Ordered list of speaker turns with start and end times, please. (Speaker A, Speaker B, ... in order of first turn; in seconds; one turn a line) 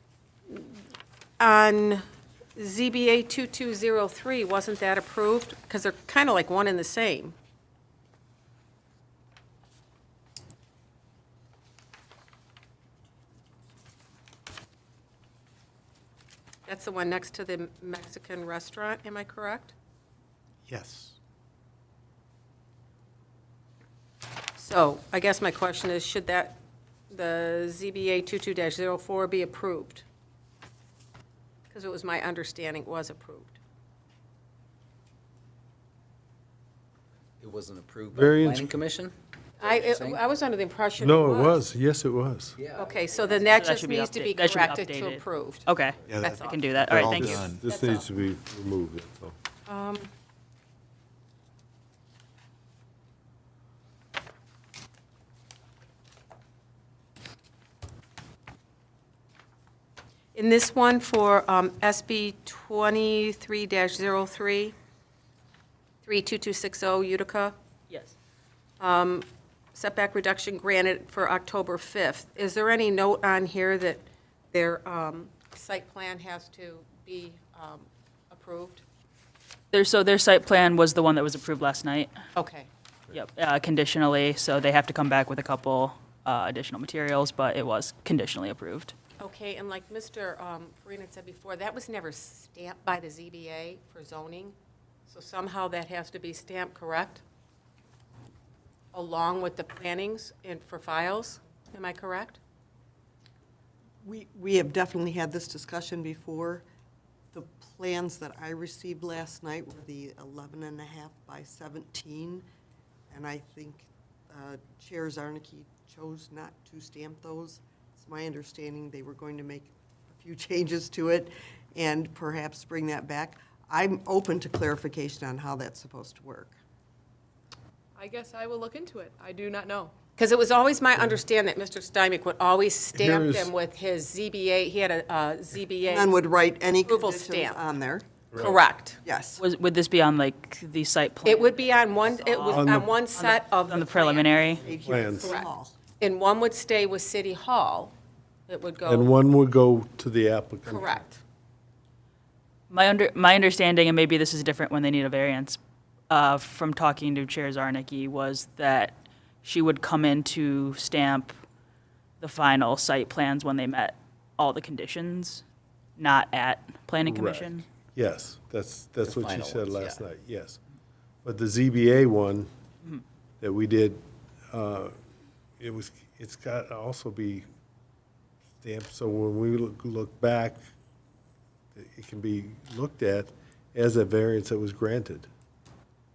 Speaker A: 1.4-2.0
Speaker A: 2.5-7.3
Speaker A: 16.6-19.7
Speaker B: 20.7-21.1
Speaker A: 24.6-26.6
Speaker A: 27.1-30.0
Speaker A: 31.7-33.5
Speaker C: 37.4-40.2
Speaker B: 38.1-38.7
Speaker A: 39.6-41.6
Speaker B: 41.0-42.5
Speaker C: 42.6-43.0
Speaker A: 42.7-46.7
Speaker D: 43.5-47.5
Speaker B: 46.1-49.3
Speaker A: 47.6-48.1
Speaker A: 49.7-50.1
Speaker A: 60.3-64.7
Speaker A: 66.0-67.5
Speaker A: 68.8-78.8
Speaker D: 79.7-82.1
Speaker A: 82.3-82.7
Speaker D: 83.1-88.9
Speaker A: 89.2-94.5
Speaker A: 95.1-97.2
Speaker A: 98.9-102.4
Speaker E: 104.0-106.6
Speaker E: 107.3-112.4
Speaker E: 113.1-126.5
Speaker F: 127.9-129.9
Speaker A: 130.2-136.1
Speaker B: 132.9-133.5
Speaker E: 135.8-138.2
Speaker A: 136.8-137.6
Speaker B: 138.3-138.6
Speaker A: 138.4-139.0
Speaker E: 139.0-139.4
Speaker D: 139.4-144.6
Speaker A: 141.2-147.9
Speaker B: 142.5-142.9
Speaker E: 144.6-145.7
Speaker B: 144.7-145.3
Speaker A: 148.5-149.1
Speaker B: 148.8-151.0
Speaker A: 150.7-151.2
Speaker D: 152.7-155.6
Speaker D: 156.1-161.4
Speaker D: 162.2-165.4
Speaker D: 166.0-167.6
Speaker B: 167.0-170.6
Speaker C: 169.0-170.0
Speaker B: 171.2-172.5
Speaker B: 173.4-174.0
Speaker B: 174.5-174.9
Speaker B: 175.6-177.4
Speaker B: 178.6-180.6
Speaker B: 181.7-185.3